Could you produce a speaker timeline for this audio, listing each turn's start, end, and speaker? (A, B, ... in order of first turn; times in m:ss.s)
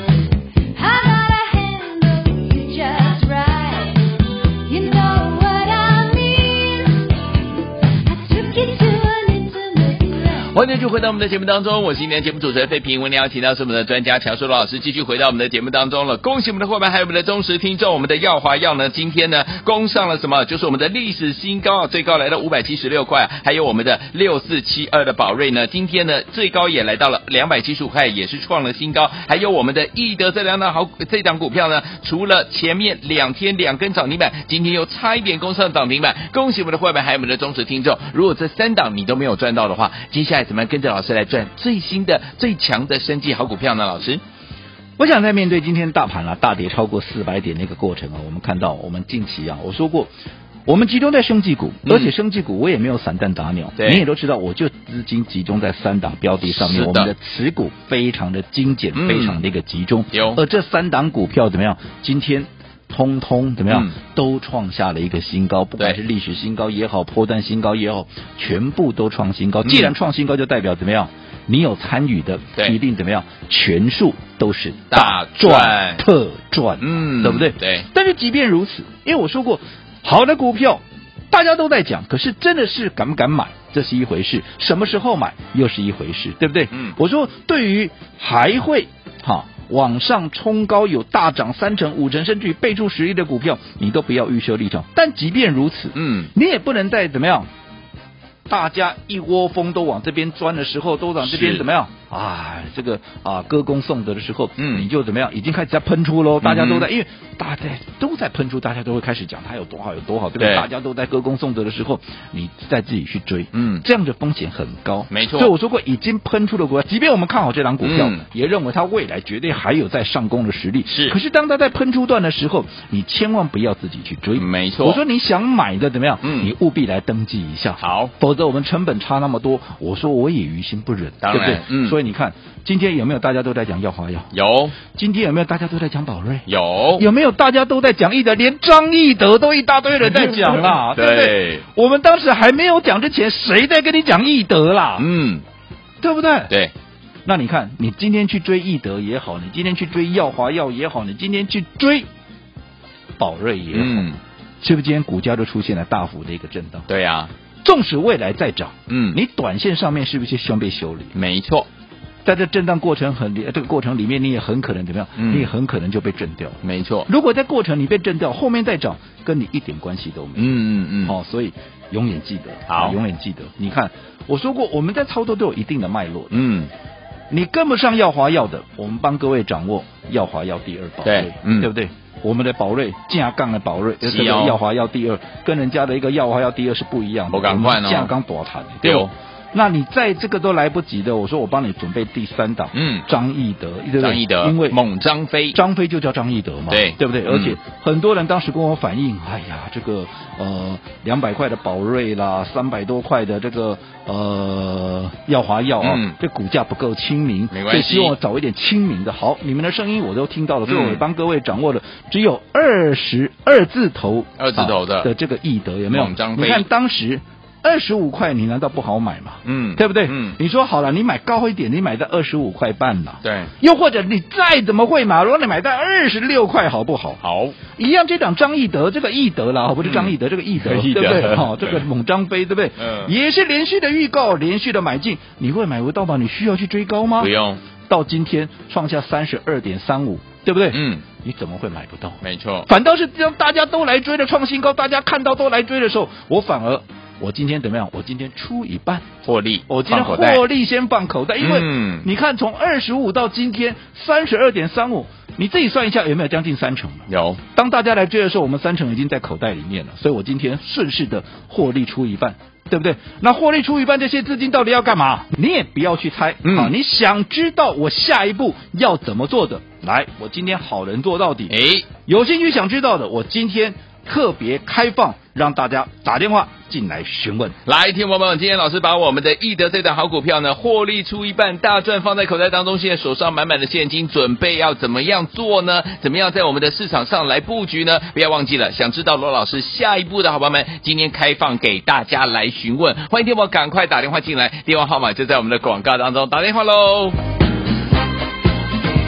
0:00.7-0:04.1 A
0:04.6-0:07.2 A
0:07.9-0:10.5 A
0:10.5-0:44.2 B
0:45.0-0:50.1 C
0:50.7-1:37.5 C
0:51.9-0:52.1 B
0:53.8-0:54.0 B
0:56.5-0:57.1 B
0:58.9-0:59.4 B
1:00.1-1:00.4 B
1:09.6-1:09.9 B
1:14.9-1:16.0 B
1:16.8-1:17.9 B
1:36.0-1:36.3 B
1:38.5-2:14.3 C
1:41.2-1:41.6 B
1:44.6-1:44.9 B
1:46.4-1:46.9 B
1:50.4-1:50.7 B
1:53.5-1:53.8 B
1:55.1-1:55.5 B
1:57.8-1:58.2 B
2:00.9-2:01.2 B
2:04.4-2:05.0 B
2:06.2-2:06.5 B
2:07.8-2:08.1 B
2:11.2-2:12.0 B
2:14.3-2:14.8 B
2:14.9-2:25.1 C
2:16.5-2:17.1 B
2:20.1-2:21.6 B
2:25.0-2:25.4 B
2:26.0-2:26.5 C
2:27.3-2:32.1 C
2:33.2-2:34.1 C
2:33.7-2:34.2 B
2:34.6-2:36.9 C
2:36.9-2:37.3 B
2:37.6-2:41.1 C
2:38.9-2:39.2 B
2:41.1-2:41.7 B
2:42.2-2:56.4 C
2:45.2-2:45.5 B
2:46.6-2:47.1 B
2:50.4-2:51.2 B
2:52.7-2:53.0 B
2:56.3-2:56.7 B
2:57.3-3:14.8 C
3:01.0-3:01.7 B
3:04.0-3:04.6 B
3:07.3-3:08.1 B
3:08.8-3:09.1 B
3:12.7-3:13.1 B
3:14.0-3:15.6 B
3:15.5-3:47.2 C
3:16.7-3:17.6 B
3:25.8-3:26.2 B
3:27.5-3:28.2 B
3:30.7-3:31.0 B
3:34.4-3:35.1 B
3:35.9-3:36.7 B
3:39.4-3:40.4 B
3:43.2-3:43.5 B
3:47.2-3:47.6 B
3:47.8-3:57.3 C
3:49.8-3:51.8 B
3:52.8-3:53.1 B
3:57.2-3:57.6 B
3:57.9-4:09.1 C
4:00.7-4:01.0 B
4:02.2-4:02.7 B
4:09.2-4:10.4 B
4:09.7-4:37.6 C
4:11.4-4:12.1 B
4:17.1-4:17.4 B
4:26.4-4:26.7 B
4:31.5-4:31.9 B
4:37.7-4:57.2 B